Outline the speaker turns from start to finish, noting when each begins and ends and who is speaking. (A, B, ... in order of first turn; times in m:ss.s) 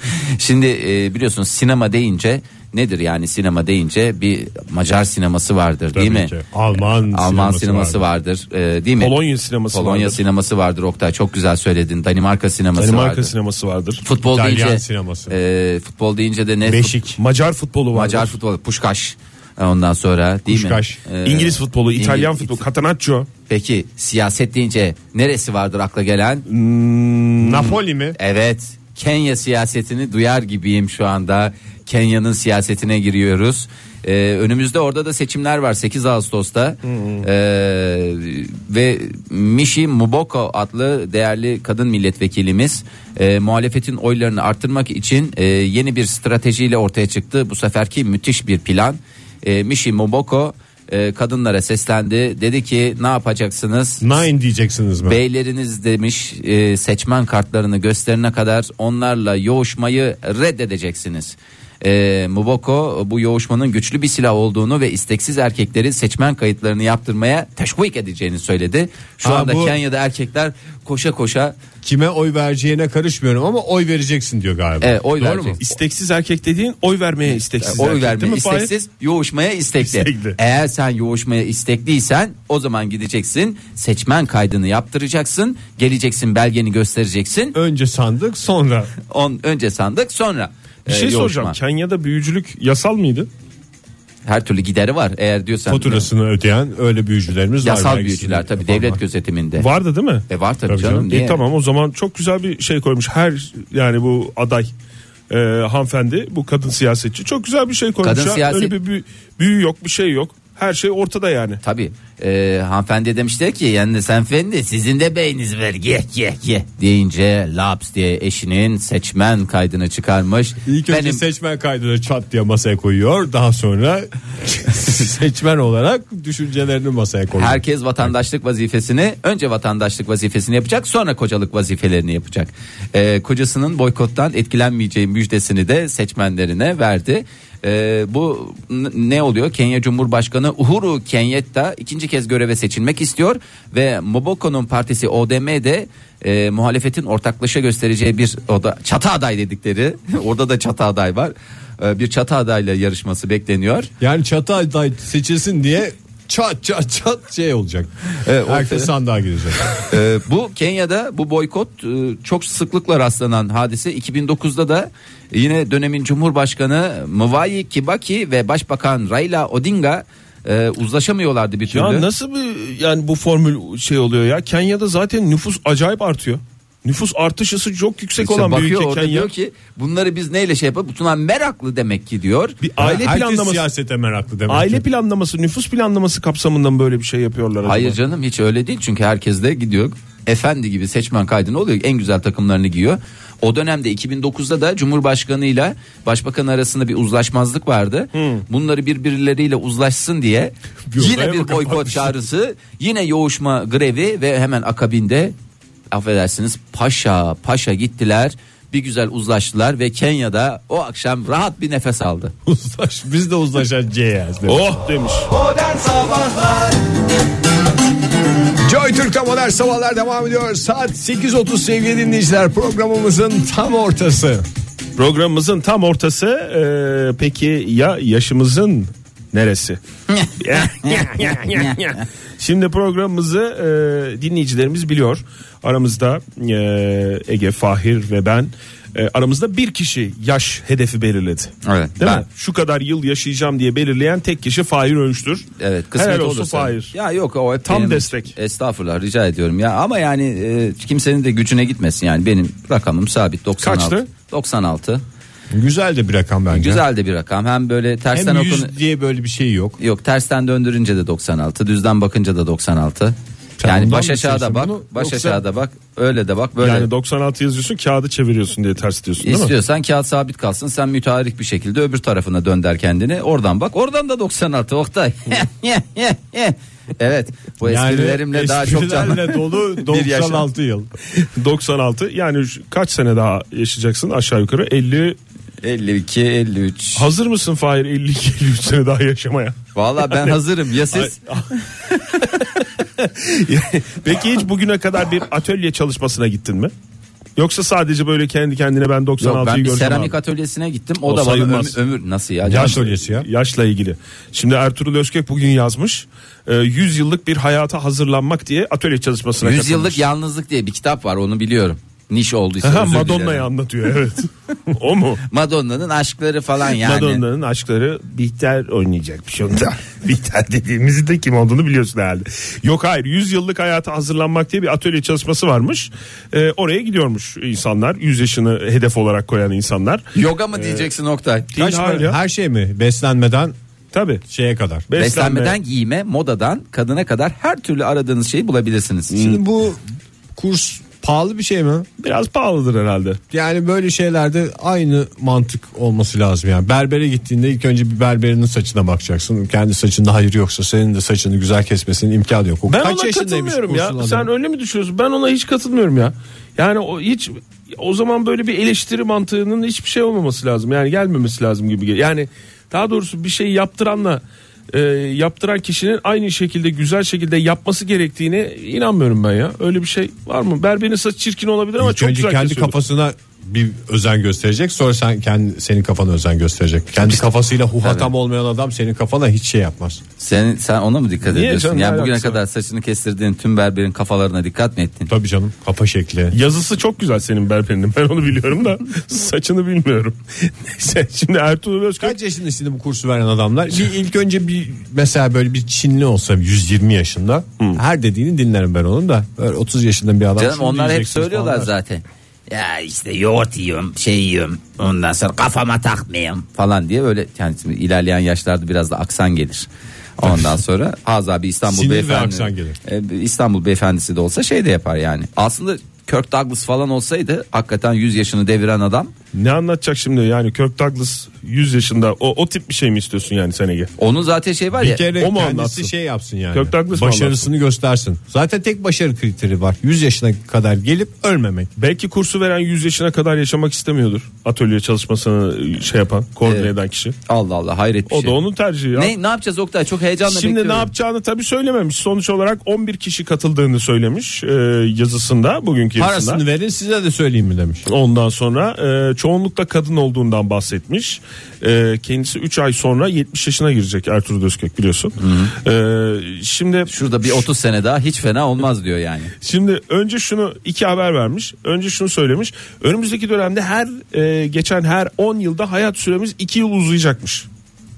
0:00.1-0:06.3 A
0:05.9-0:08.0 B
0:06.9-0:09.2 A
0:09.0-0:10.2 C
0:09.7-0:13.3 A
0:12.8-0:14.0 C
0:14.0-0:17.0 A
0:14.3-0:15.4 B
0:16.6-0:17.2 B
0:17.2-0:18.3 C
0:17.9-0:22.6 A
0:20.5-0:21.0 B
0:21.2-0:23.3 C
0:23.5-0:26.4 A
0:26.5-0:27.8 C
0:27.4-0:28.2 B
0:28.2-0:54.0 A
0:36.9-0:37.2 C
0:54.0-0:55.2 B
0:55.0-1:11.6 A
1:09.2-1:09.8 B
1:11.8-1:15.6 B
1:14.8-1:15.6 A
1:15.6-1:18.7 C
1:17.5-1:27.6 A
1:19.8-1:20.4 C
1:27.5-1:28.9 B
1:29.1-1:31.6 A
1:30.9-1:33.3 C
1:34.2-1:36.1 A
1:35.7-1:39.0 B
1:37.6-1:39.7 A
1:39.6-1:40.2 C
1:40.3-1:41.4 A
1:40.7-1:41.1 B
1:41.1-1:44.7 C
1:45.3-1:51.6 C
1:48.0-1:48.7 A
1:51.6-2:01.2 A
2:00.6-2:08.1 B
2:07.4-2:33.9 A
2:34.0-2:39.7 B
2:38.2-2:38.9 A
2:39.8-2:52.1 A
2:51.7-2:59.3 C
2:58.2-3:02.6 A
3:02.6-3:03.7 C
3:02.8-3:04.8 B
3:04.5-3:08.0 C
3:07.6-3:25.3 A
3:18.1-3:18.4 C
3:20.9-3:22.1 B
3:25.9-3:32.3 A
3:32.4-3:34.8 B
3:34.4-3:35.3 C
3:35.6-3:36.4 B
3:38.6-3:44.4 B
3:45.0-3:49.8 C
3:50.2-3:51.7 A
3:50.4-4:06.9 C
4:01.6-4:02.2 A
4:05.6-4:15.0 A
4:07.6-4:08.3 C
4:13.6-4:14.0 C
4:15.5-4:16.8 B
4:16.5-4:18.7 A
4:18.1-4:19.8 B
4:19.8-4:26.9 A
4:23.6-4:25.0 B
4:25.0-4:25.4 C
4:26.6-4:29.5 C
4:29.2-4:40.5 A
4:37.6-4:40.9 B
4:41.2-4:45.2 C
4:45.6-4:47.1 A
4:47.0-4:56.7 C
4:49.7-4:51.2 A
4:57.4-5:00.1 C
4:59.2-5:02.8 A
5:01.0-5:01.8 C
5:02.4-5:03.3 B
5:02.5-5:10.0 C
5:09.4-5:13.5 A
5:12.6-5:15.2 C
5:15.3-5:17.2 A
5:16.7-5:30.9 C
5:30.1-5:31.5 A
5:31.5-5:32.2 C
5:31.5-5:33.5 B
5:33.9-5:34.2 C
5:34.3-5:34.9 B
5:34.9-5:35.6 C
5:35.0-5:39.4 A
5:39.1-5:39.8 B
5:40.3-5:41.9 B
5:42.0-5:43.2 C
5:43.3-5:54.3 B
5:52.7-6:12.7 C
6:11.8-6:20.0 B
6:17.8-6:18.1 A
6:20.2-6:25.1 A
6:21.3-6:22.4 C
6:25.1-6:26.3 B
6:26.3-6:32.2 C
6:32.0-6:41.7 B
6:40.4-6:59.1 A
6:51.7-6:52.8 B
6:59.3-7:03.9 C
7:04.0-7:05.1 A
7:04.8-7:11.7 B
7:05.2-7:05.9 C
7:06.5-7:07.4 C
7:11.8-7:17.2 C
7:17.2-7:18.4 A
7:18.1-7:19.1 C
7:18.9-7:20.9 A
7:20.2-7:26.4 C
7:26.0-7:27.8 B
7:27.8-7:37.4 C
7:35.2-7:35.5 A
7:36.9-7:39.3 A
7:39.4-7:47.5 C